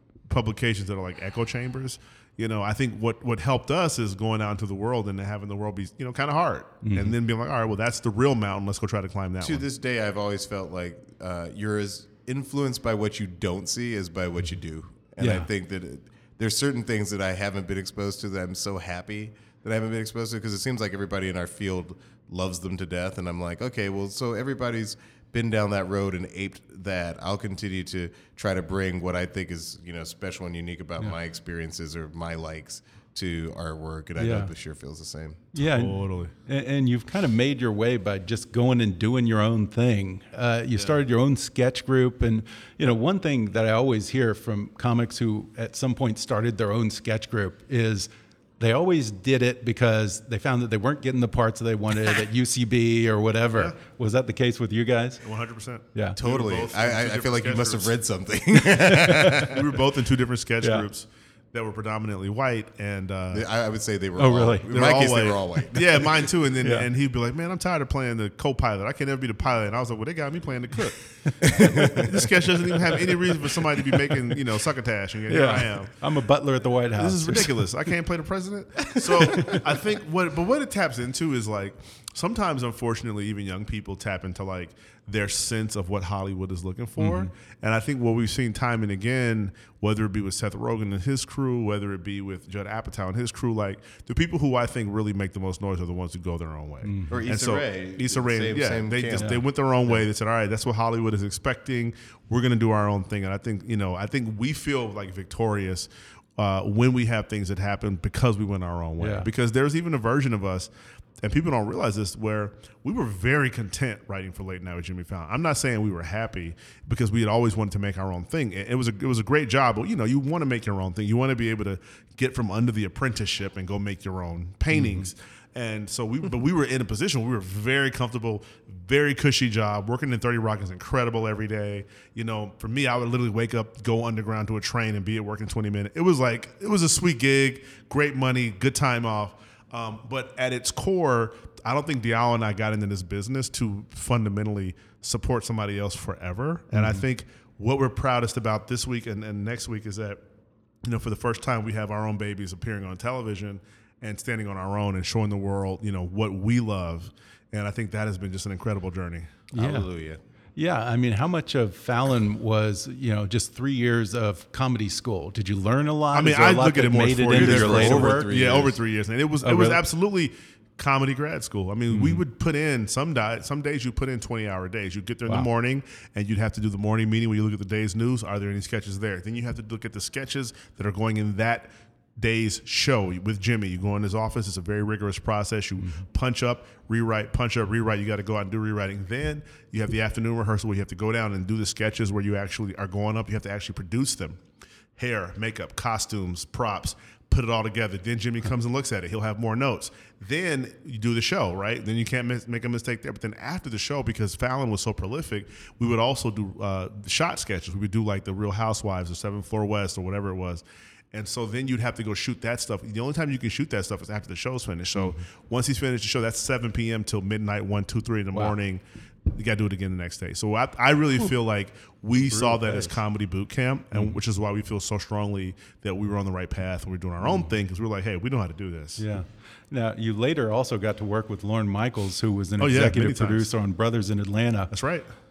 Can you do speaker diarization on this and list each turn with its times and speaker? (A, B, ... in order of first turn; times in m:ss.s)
0:00.3-0:09.7 A
0:06.8-0:07.1 B
0:09.4-0:35.5 C
0:15.2-0:15.5 B
0:34.2-0:34.5 B
0:35.5-0:55.2 B
0:35.6-0:36.3 A
0:55.2-0:58.0 A
0:56.2-0:59.6 C
0:58.9-0:59.3 B
0:59.3-1:03.5 A
1:03.3-1:06.2 C
1:04.2-1:04.7 B
1:04.7-1:15.9 A
1:06.6-1:06.9 B
1:11.3-1:12.1 B
1:11.5-1:12.0 C
1:12.9-1:14.4 B
1:15.3-1:17.6 B
1:17.0-1:50.7 A
1:19.0-1:19.6 B
1:27.0-1:27.3 B
1:36.8-1:37.2 B
1:37.1-1:40.0 C
1:49.0-1:49.3 B
1:51.2-2:30.2 A
2:04.7-2:05.1 B
2:26.7-2:27.0 B
2:30.8-2:39.4 A
2:39.5-2:39.9 B
2:39.6-2:40.2 C
2:40.6-2:48.3 B
2:46.1-3:14.4 A
2:47.4-2:48.8 C
2:49.4-2:49.8 B
2:51.9-2:52.2 B
3:15.0-3:49.0 A
3:35.0-3:35.2 B
3:42.3-3:43.0 B
3:47.2-3:47.5 B
3:49.0-3:54.7 B
3:52.6-3:53.5 A
3:54.7-3:55.1 A